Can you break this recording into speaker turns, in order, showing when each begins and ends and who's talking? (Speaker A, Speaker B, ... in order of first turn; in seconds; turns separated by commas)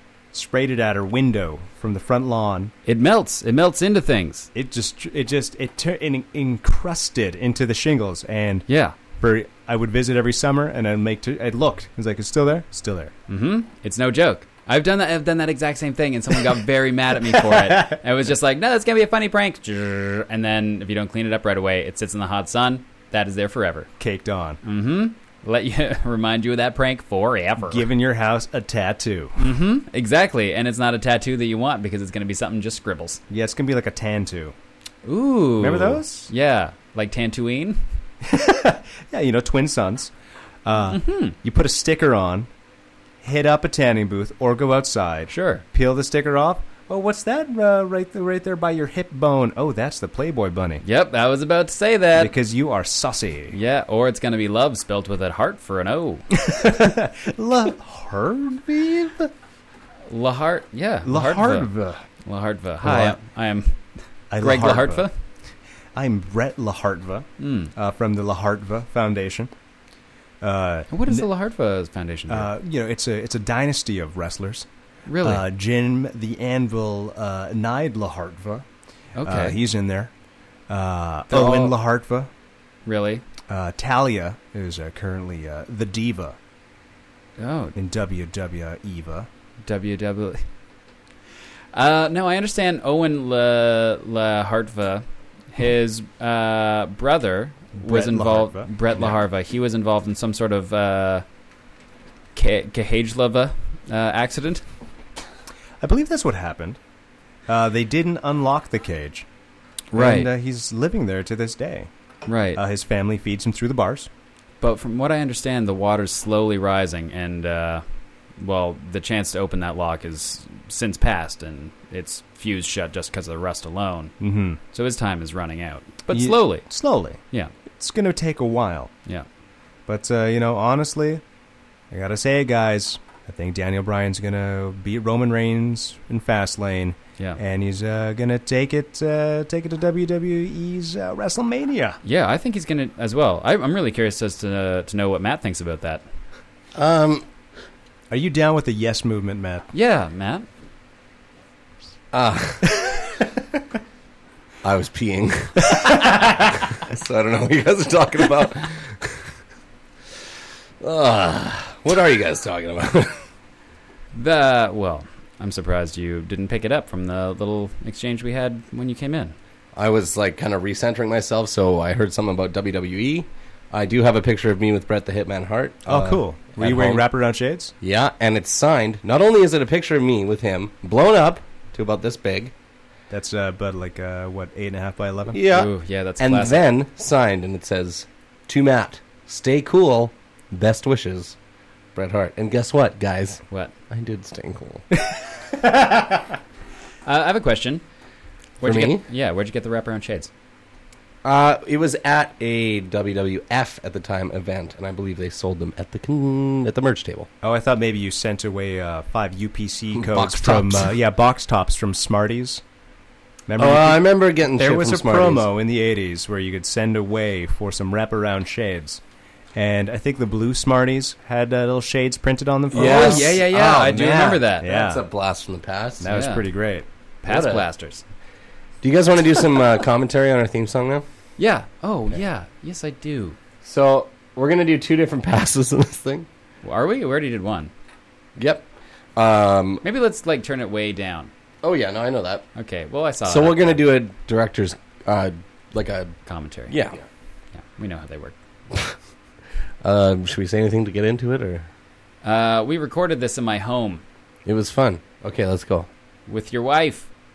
Speaker A: 0.3-2.7, Speaker B: 2.9-4.5, Speaker A: 4.5-8.7, Speaker B: 8.7-9.0, Speaker A: 9.2-13.1, Speaker B: 13.3-23.9, Speaker A: 17.3-18.0, Speaker A: 24.0-24.6, Speaker B: 24.6-27.9, Speaker A: 27.6-29.4, Speaker B: 29.4-33.2, Speaker A: 33.3-34.5, Speaker B: 35.0-37.8, Speaker A: 35.6-36.3, Speaker A: 38.2-40.1, Speaker A: 40.6-42.5, Speaker B: 40.9-41.4, Speaker A: 43.2-50.8, Speaker B: 45.3-45.6, Speaker B: 50.8-52.3, Speaker A: 52.1-53.6, Speaker B: 53.5-56.2, Speaker A: 56.3-59.3, Speaker B: 60.1-61.7, Speaker A: 61.0-62.0, Speaker B: 62.2-65.1, Speaker A: 62.8-63.2, Speaker A: 64.3-65.1, Speaker A: 65.9-69.5, Speaker B: 67.4-67.7, Speaker A: 70.4-71.3, Speaker B: 70.9-72.5, Speaker A: 72.3-74.7, Speaker B: 75.1-75.5, Speaker A: 75.2-78.7, Speaker B: 79.2-79.6, Speaker A: 79.2-80.1, Speaker A: 80.7-82.3, Speaker B: 81.3-81.7, Speaker B: 82.8-83.2, Speaker A: 83.5-86.4, Speaker B: 87.4-87.8, Speaker A: 87.8-89.3, Speaker B: 89.6-90.4, Speaker B: 91.7-101.2, Speaker A: 97.8-99.2, Speaker B: 102.3-104.6, Speaker A: 105.8-106.8, Speaker A: 107.5-109.3, Speaker B: 109.9-110.3, Speaker A: 109.9-111.9, Speaker B: 112.3-112.6, Speaker A: 112.5-114.1, Speaker B: 114.6-117.8, Speaker B: 118.4-124.2, Speaker A: 124.2-124.6, Speaker B: 124.7-126.7, Speaker A: 126.1-127.2, Speaker A: 127.7-128.9, Speaker A: 129.9-131.2, Speaker A: 131.9-142.0, Speaker B: 142.0-146.1, Speaker C: 146.8-147.2, Speaker A: 148.1-149.7, Speaker B: 149.7-150.5, Speaker C: 152.1-152.9, Speaker C: 154.6-159.1, Speaker C: 160.8-163.2, Speaker B: 164.1-169.4, Speaker C: 169.8-177.1, Speaker A: 175.9-177.7, Speaker C: 177.8-182.5, Speaker A: 183.1-185.4, Speaker C: 185.3-191.4, Speaker B: 185.5-186.6, Speaker C: 192.0-194.8, Speaker A: 195.5-196.0, Speaker B: 197.1-197.8, Speaker B: 198.6-200.3, Speaker C: 198.6-199.0, Speaker C: 201.2-207.3, Speaker A: 207.4-212.6, Speaker C: 210.0-210.9, Speaker A: 213.5-219.0, Speaker C: 213.6-215.5, Speaker A: 219.5-225.0, Speaker C: 222.7-223.9, Speaker B: 222.7-224.7, Speaker C: 224.6-226.1, Speaker A: 226.0-226.9, Speaker B: 226.1-226.5, Speaker B: 227.2-228.0, Speaker C: 227.3-227.6, Speaker C: 228.8-231.0, Speaker B: 231.4-233.4, Speaker C: 233.6-236.3, Speaker B: 236.6-237.7, Speaker C: 238.4-238.7, Speaker C: 239.2-239.8, Speaker B: 239.8-241.3, Speaker C: 241.6-242.5, Speaker B: 242.6-243.8, Speaker C: 243.2-246.2, Speaker B: 246.3-246.8, Speaker C: 246.7-247.0, Speaker B: 247.5-248.3, Speaker C: 249.8-251.7, Speaker B: 252.2-254.0, Speaker C: 254.5-255.9, Speaker B: 256.3-257.1